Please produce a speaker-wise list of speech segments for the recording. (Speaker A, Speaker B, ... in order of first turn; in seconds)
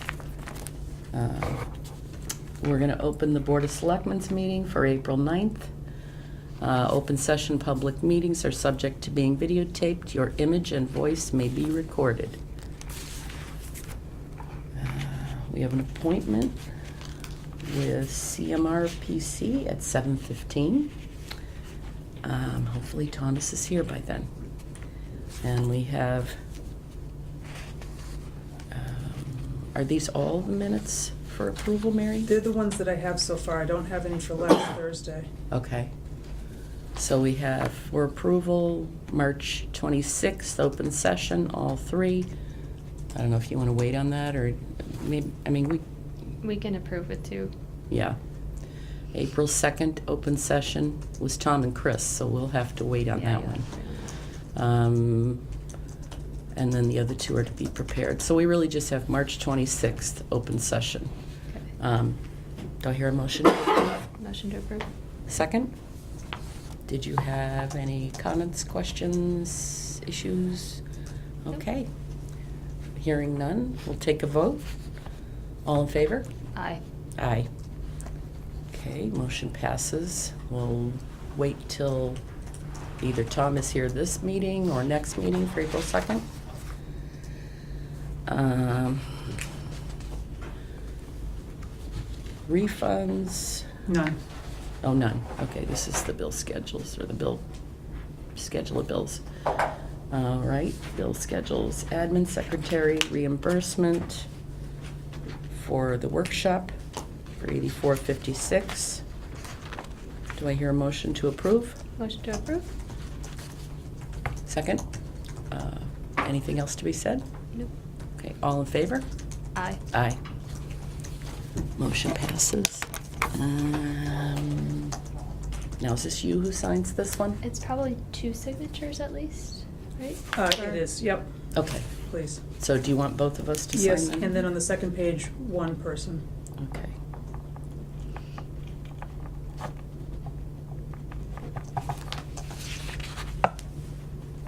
Speaker A: 1.1-1.7, 2.6-5.7, 6.6-12.4, 14.8-16.6, 17.6-20.9, 22.2-24.3, 25.4-26.4, 28.7-32.3, 35.5-35.9, 37.0-42.3, 43.1-45.8, 47.9-48.2, 49.1-53.7, 54.5-55.4, 56.5-61.1, 61.8-62.2, 62.8-64.1, 65.3-65.8, 66.9-70.8, 71.4-71.9, 73.0-74.7, 75.7-76.3, 77.2-77.5, 78.7-82.2, 83.0-86.3, 88.3-89.3, 92.5-93.7, 94.8-97.5, 98.3-99.2, 100.1-104.3, 105.5-106.7, 107.3-109.0, 110.4-111.8, 114.5-114.8, 115.5-117.2, 118.2-119.1, 119.9-120.2, 121.8-125.0, 125.8-127.4, 131.6-131.9, 132.6-134.4, 136.6-136.9
Speaker B: 32.3-35.3, 93.9-94.2, 130.3-131.3, 132.1-132.4, 133.7-136.2
Speaker C: 46.4-47.5, 53.2-54.1, 64.2-64.9, 76.5-76.8, 112.0-112.7, 119.6-119.8, 127.4-130.8